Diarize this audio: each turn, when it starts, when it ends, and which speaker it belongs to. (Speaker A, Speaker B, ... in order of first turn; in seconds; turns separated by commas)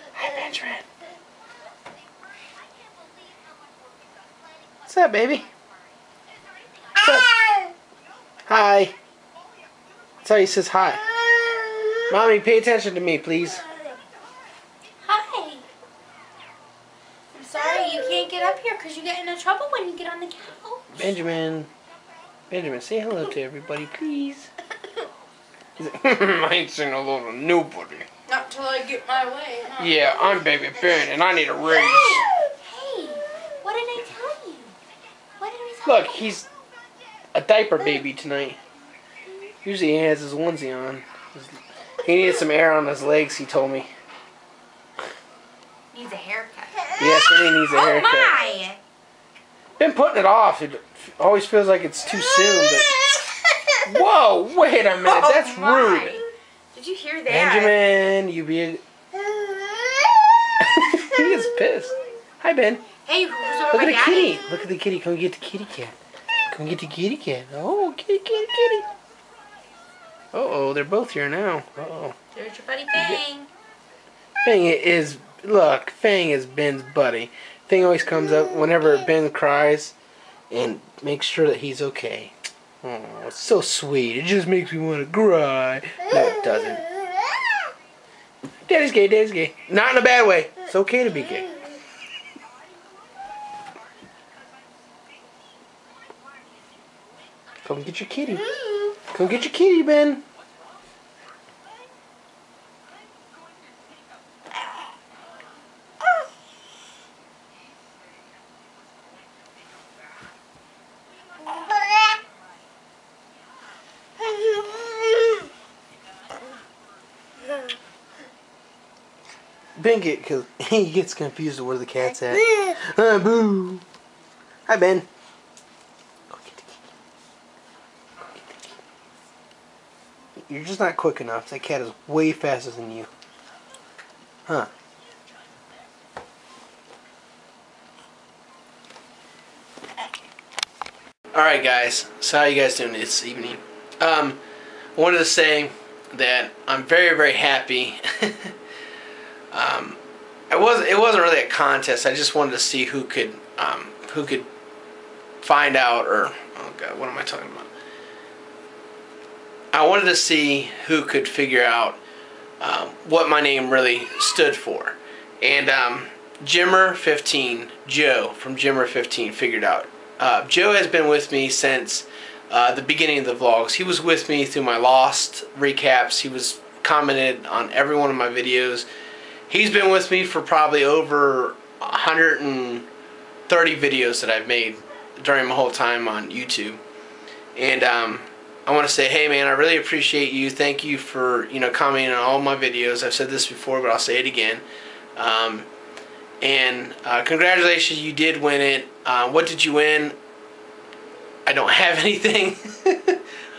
Speaker A: 0.2-0.8, Speaker A: 4.9-5.5, Speaker A: 7.0-7.3, Speaker B: 7.3-7.7, Speaker A: 8.5-8.9, Speaker A: 10.2-11.0, Speaker A: 12.1-13.7, Speaker B: 15.1-15.7, Speaker B: 17.3-20.9, Speaker A: 20.9-21.7, Speaker A: 22.5-24.5, Speaker A: 25.8-28.1, Speaker B: 28.3-30.5, Speaker A: 29.8-32.3, Speaker B: 31.6-34.8, Speaker B: 35.4-36.2, Speaker A: 35.9-36.5, Speaker A: 37.3-38.6, Speaker A: 39.6-43.9, Speaker B: 45.9-48.8, Speaker A: 47.0-48.4, Speaker A: 49.8-52.9, Speaker A: 53.8-56.2, Speaker B: 55.0-57.8, Speaker A: 57.3-58.8, Speaker A: 60.6-62.8, Speaker B: 63.0-64.5, Speaker A: 63.7-66.0, Speaker A: 66.5-68.9, Speaker A: 70.3-72.2, Speaker B: 72.3-73.5, Speaker A: 72.9-73.2, Speaker A: 74.4-80.0, Speaker A: 80.5-86.9, Speaker A: 88.7-91.5, Speaker A: 97.7-98.5, Speaker A: 99.1-100.2, Speaker A: 119.8-123.8, Speaker B: 122.5-122.7, Speaker A: 124.7-125.1, Speaker A: 126.3-126.8, Speaker A: 130.5-133.1, Speaker A: 141.3-144.4, Speaker A: 145.0-148.5, Speaker A: 149.5-150.0, Speaker A: 150.5-154.5, Speaker A: 155.4-157.7, Speaker A: 159.7-162.0, Speaker A: 162.6-178.9, Speaker A: 179.5-182.9, Speaker A: 183.5-186.8, Speaker A: 187.6-194.7, Speaker A: 195.2-195.7, Speaker A: 196.4-200.2, Speaker A: 201.5-203.2